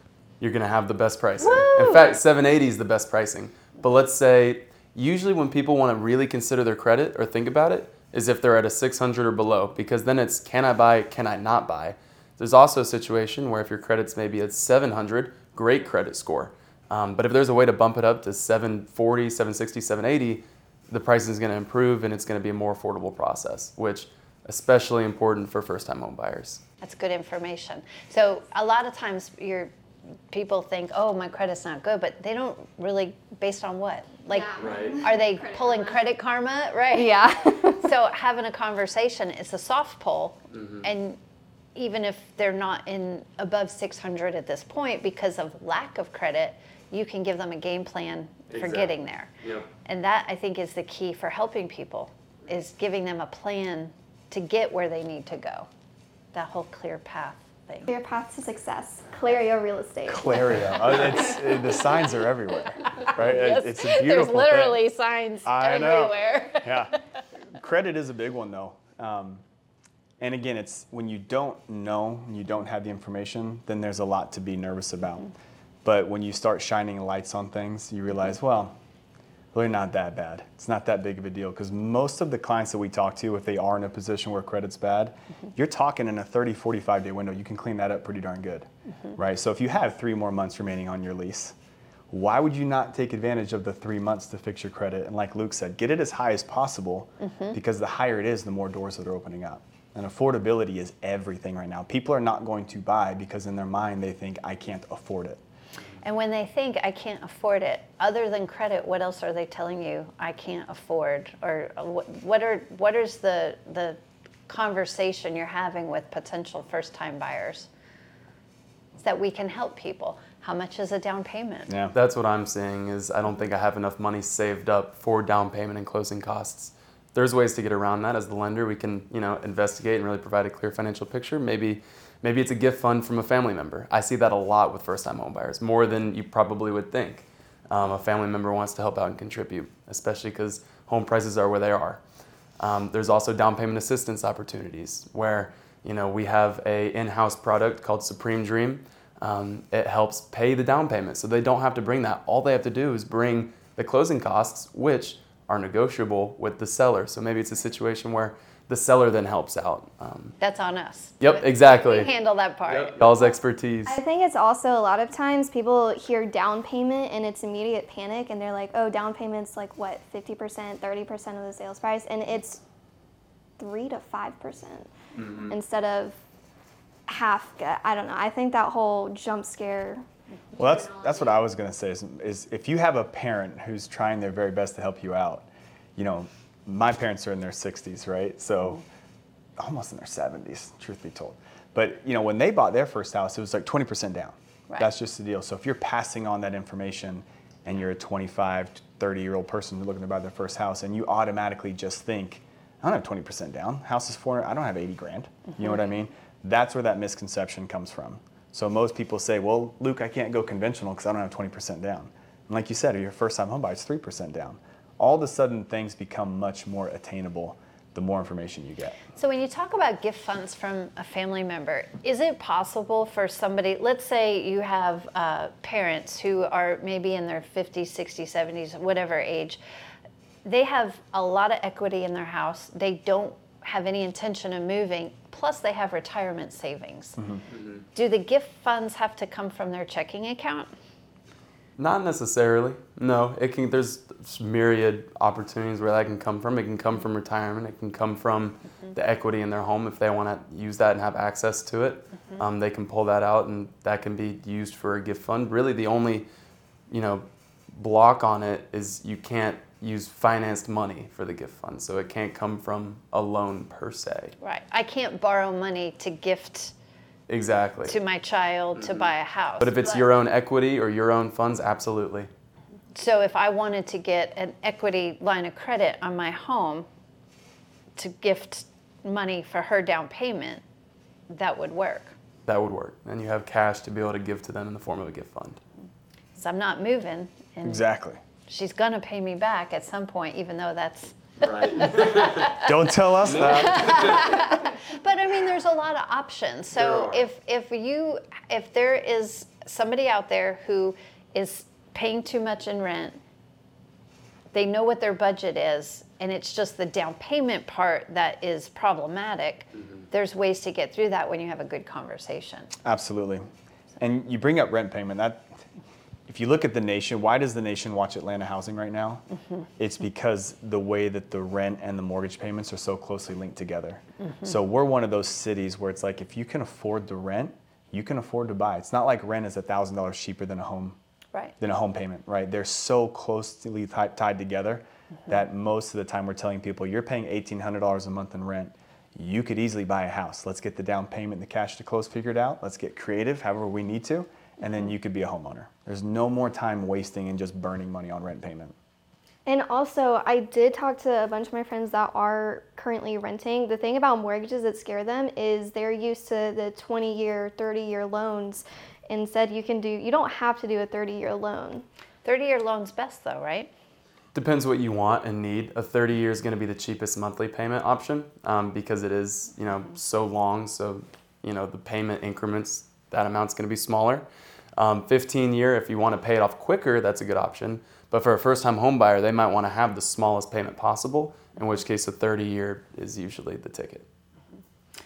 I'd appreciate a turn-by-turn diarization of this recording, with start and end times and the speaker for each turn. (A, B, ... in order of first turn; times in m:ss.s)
0:00.4-0:26.6 A
0:01.4-0:02.2 B
0:26.8-0:29.7 B
0:30.3-0:41.2 B
0:34.3-0:35.8 C
0:34.6-0:35.0 A
0:36.9-0:37.9 C
0:40.5-0:40.9 A
0:41.8-0:49.3 B
0:48.5-0:49.7 A
0:49.8-0:55.7 B
0:56.3-0:57.9 B
0:57.9-1:00.4 C
1:00.1-1:04.8 D
1:03.0-1:06.8 B
1:05.4-1:07.0 D
1:07.5-1:09.4 D
1:10.2-1:15.3 D
1:15.8-1:18.8 D
1:19.5-1:31.6 D
1:32.1-1:45.4 D
1:37.2-1:37.6 B
1:46.0-1:57.7 B
1:59.0-2:01.8 B
2:01.7-2:01.9 D
2:01.9-2:22.0 A
2:22.6-2:40.4 A
2:40.4-2:43.3 B
2:41.2-2:42.1 A
2:42.7-2:44.0 A
2:43.9-2:52.6 C
2:53.6-2:56.2 C
2:55.2-2:55.6 A
2:57.1-3:00.0 C
3:00.6-3:08.8 D
3:00.6-3:01.2 C
3:09.6-3:39.0 D
3:39.2-3:49.6 B
3:50.4-3:57.2 B
3:57.5-3:57.8 A
3:58.0-4:00.7 B
4:01.8-4:16.3 A
4:16.9-4:24.3 A
4:24.4-4:26.7 B
4:27.3-4:28.0 A
4:27.8-4:30.0 B
4:28.8-4:29.1 A
4:29.6-4:32.3 A
4:32.9-4:36.9 B
4:38.0-4:40.6 B
4:41.3-4:42.2 B
4:42.5-4:45.6 A
4:46.4-4:47.8 B
4:47.6-4:48.2 D
4:48.5-4:52.5 B
4:51.4-4:52.5 A
4:52.5-4:54.0 D
4:53.3-4:54.3 A
4:53.4-5:03.2 B
4:56.7-4:57.3 A
5:04.5-5:12.7 B
5:12.8-5:13.5 D
5:14.0-5:15.5 D
5:16.3-5:19.2 D
5:19.8-5:31.0 D
5:31.6-5:48.7 D
5:49.5-6:01.8 C
6:02.2-6:03.7 B
6:04.3-6:24.1 A